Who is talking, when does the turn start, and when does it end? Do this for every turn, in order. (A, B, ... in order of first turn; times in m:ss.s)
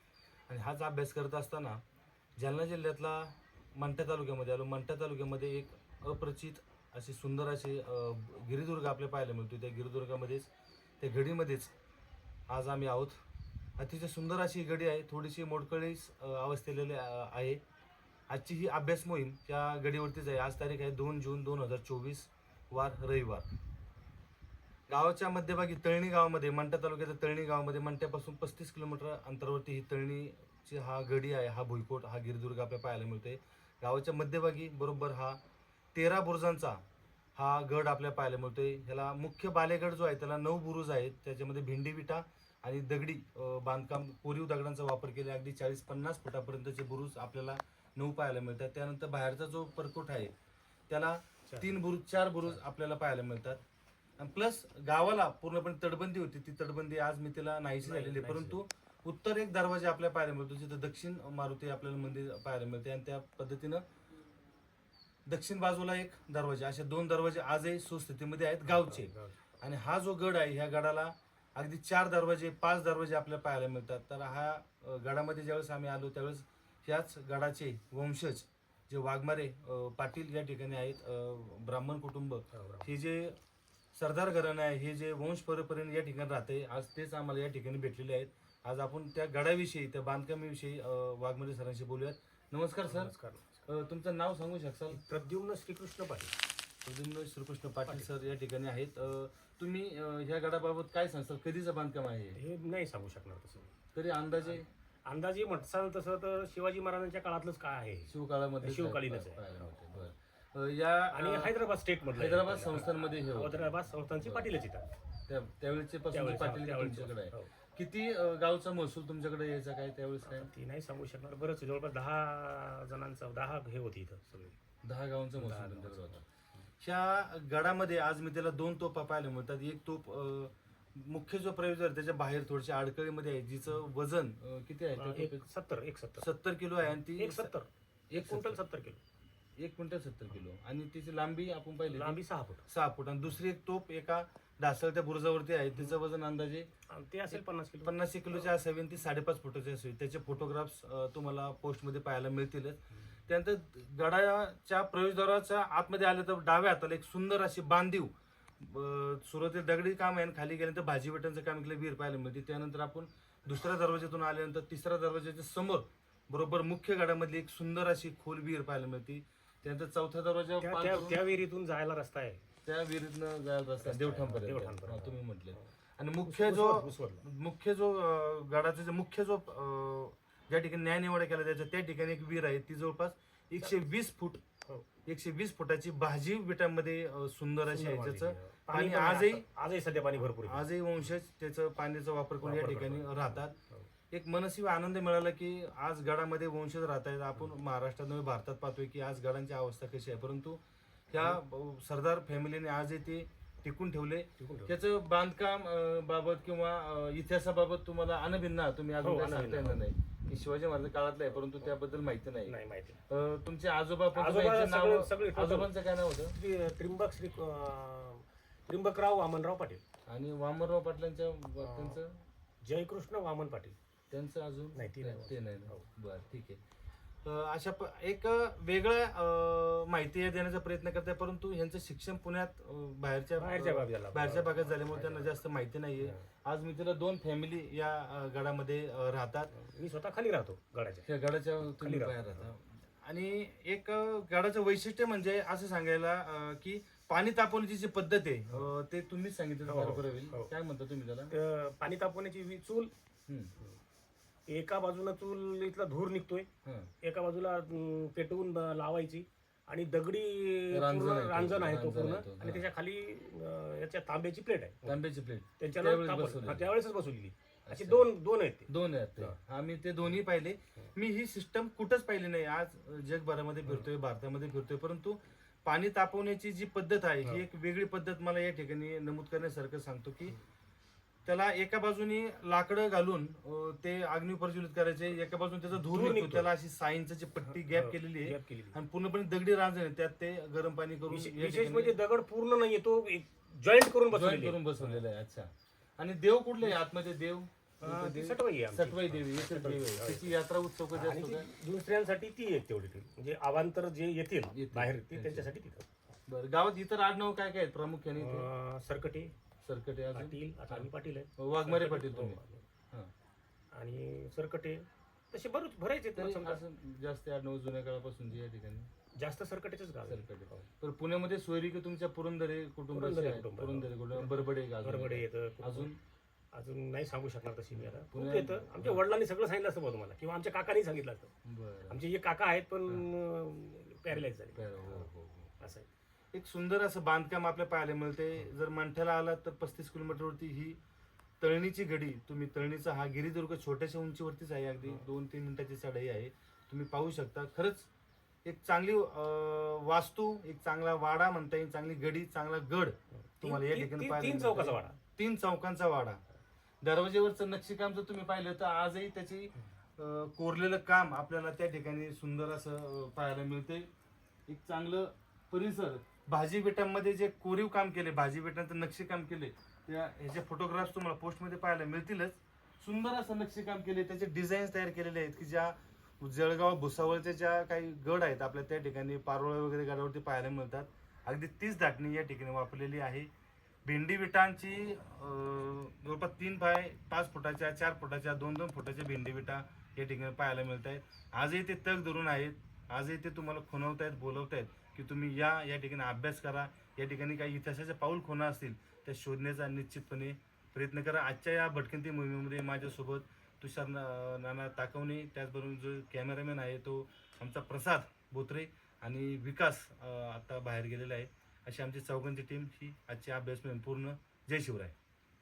0:00.5-0:01.8 A
0:02.4-0:10.5 A
0:11.0-0:11.7 A
0:12.5-0:13.2 A
0:13.8-0:17.6 A
0:18.3-0:23.5 A
0:24.9-0:35.4 A
0:35.9-0:36.8 A
0:37.4-0:50.3 A
0:50.9-0:53.6 A
0:51.5-0:51.7 B
0:54.2-1:03.8 A
0:57.8-0:58.6 B
1:05.3-1:23.4 A
1:08.6-1:09.4 B
1:22.5-1:22.9 B
1:23.9-1:33.1 A
1:32.8-1:33.6 B
1:33.7-1:35.0 A
1:34.9-1:36.4 B
1:36.8-1:42.4 A
1:37.8-1:38.3 B
1:42.4-1:43.8 B
1:44.0-1:44.7 A
1:44.4-1:49.7 B
1:48.1-1:51.5 A
1:51.1-1:55.0 B
1:52.1-1:54.4 A
1:55.3-2:00.5 A
1:56.1-1:57.5 B
2:00.2-2:04.6 B
2:04.8-2:06.2 A
2:05.4-2:06.2 B
2:06.8-2:15.5 A
2:14.9-2:16.3 B
2:16.2-2:17.5 A
2:17.1-2:19.0 B
2:18.1-2:18.6 A
2:19.6-2:26.7 A
2:21.8-2:22.6 B
2:26.9-2:28.5 B
2:27.3-2:51.2 A
2:50.6-2:52.4 B
2:52.6-3:04.4 A
2:53.8-2:55.7 B
2:56.3-2:57.2 B
3:05.1-3:09.4 A
3:07.7-3:10.7 B
3:10.5-3:13.6 A
3:12.4-3:13.9 B
3:14.1-3:32.5 A
3:24.4-3:24.8 B
3:29.0-3:29.9 B
3:32.4-3:33.0 B
3:33.1-3:36.4 A
3:34.1-3:35.7 B
3:36.3-3:39.8 B
3:40.1-3:42.2 A
3:41.6-3:42.0 B
3:42.6-3:43.8 B
3:44.1-3:46.6 A
3:44.7-3:45.8 B
3:47.2-3:59.5 A
3:53.4-3:55.4 B
3:56.0-3:56.2 B
3:59.5-4:01.1 B
4:01.0-4:11.3 A
4:01.8-4:02.5 B
4:09.7-4:10.5 B
4:11.3-4:12.9 B
4:13.3-4:13.5 A
4:14.5-4:16.5 B
4:16.6-4:16.9 A
4:17.0-4:25.0 B
4:20.7-4:22.6 A
4:24.8-4:26.7 A
4:25.6-4:29.4 B
4:27.7-4:28.1 A
4:28.7-4:40.4 A
4:41.3-4:52.0 A
4:45.7-4:46.5 B
4:47.5-4:48.8 B
4:51.1-4:55.0 B
4:54.1-5:01.5 A
4:57.8-5:00.4 B
5:00.9-5:05.9 B
5:04.5-5:05.5 A
5:06.3-5:08.5 A
5:08.2-5:09.3 B
5:09.6-5:12.4 A
5:10.1-5:12.7 B
5:13.7-5:16.6 B
5:16.2-5:18.9 A
5:19.2-5:20.7 B
5:20.1-5:26.0 A
5:22.9-5:25.9 B
5:26.5-5:31.3 B
5:27.8-5:29.0 A
5:31.5-5:32.0 A
5:31.9-5:35.9 B
5:34.1-5:35.6 A
5:36.3-5:40.8 A
5:41.4-5:47.9 A
5:48.4-5:56.2 A
5:53.4-5:55.0 B
5:56.8-6:03.9 A
6:04.5-6:23.3 A
6:23.8-6:55.0 A